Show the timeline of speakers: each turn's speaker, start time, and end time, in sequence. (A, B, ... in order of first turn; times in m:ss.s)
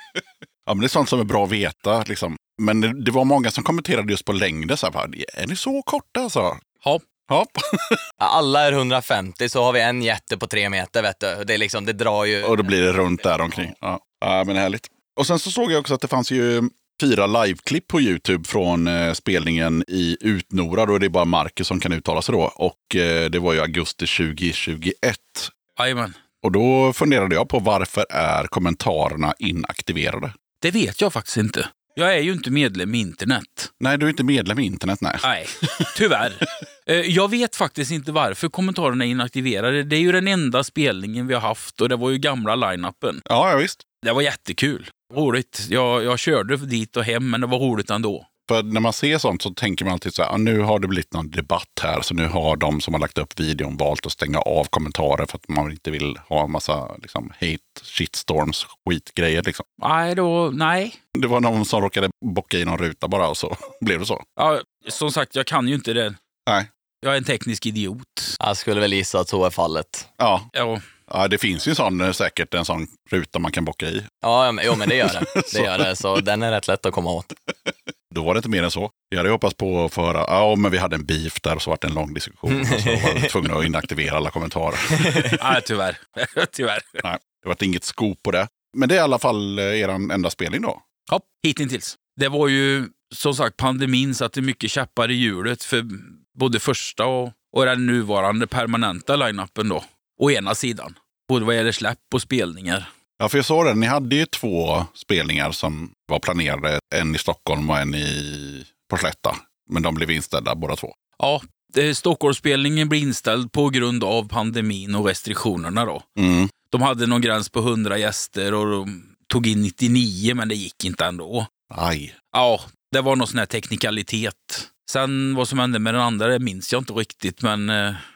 0:00.6-0:06.6 A
0:07.3-0:08.0 A
0:08.2-0:12.6 B
0:12.4-0:25.5 A
0:25.8-0:26.2 C
0:26.4-0:30.3 A
0:30.6-0:33.7 C
0:33.8-0:35.9 A
0:35.2-0:43.2 C
0:43.2-0:43.8 A
0:44.0-0:48.3 C
0:48.5-0:59.6 A
0:59.8-1:01.0 C
1:01.1-1:04.2 A
1:04.4-1:06.2 C
1:07.0-1:08.4 C
1:08.4-1:10.1 B
1:10.2-1:10.5 A
1:10.5-1:10.8 C
1:11.1-1:14.1 A
1:14.2-1:17.3 B
1:14.7-1:15.9 A
1:18.1-1:25.4 A
1:22.5-1:23.3 B
1:24.9-1:25.4 B
1:25.4-1:27.0 C
1:27.0-1:30.8 A
1:31.1-1:42.9 C
1:43.2-1:51.0 A
1:51.2-1:56.1 C
1:56.2-1:56.5 A
1:56.7-2:01.5 C
2:01.7-2:02.1 A
2:02.3-2:08.0 C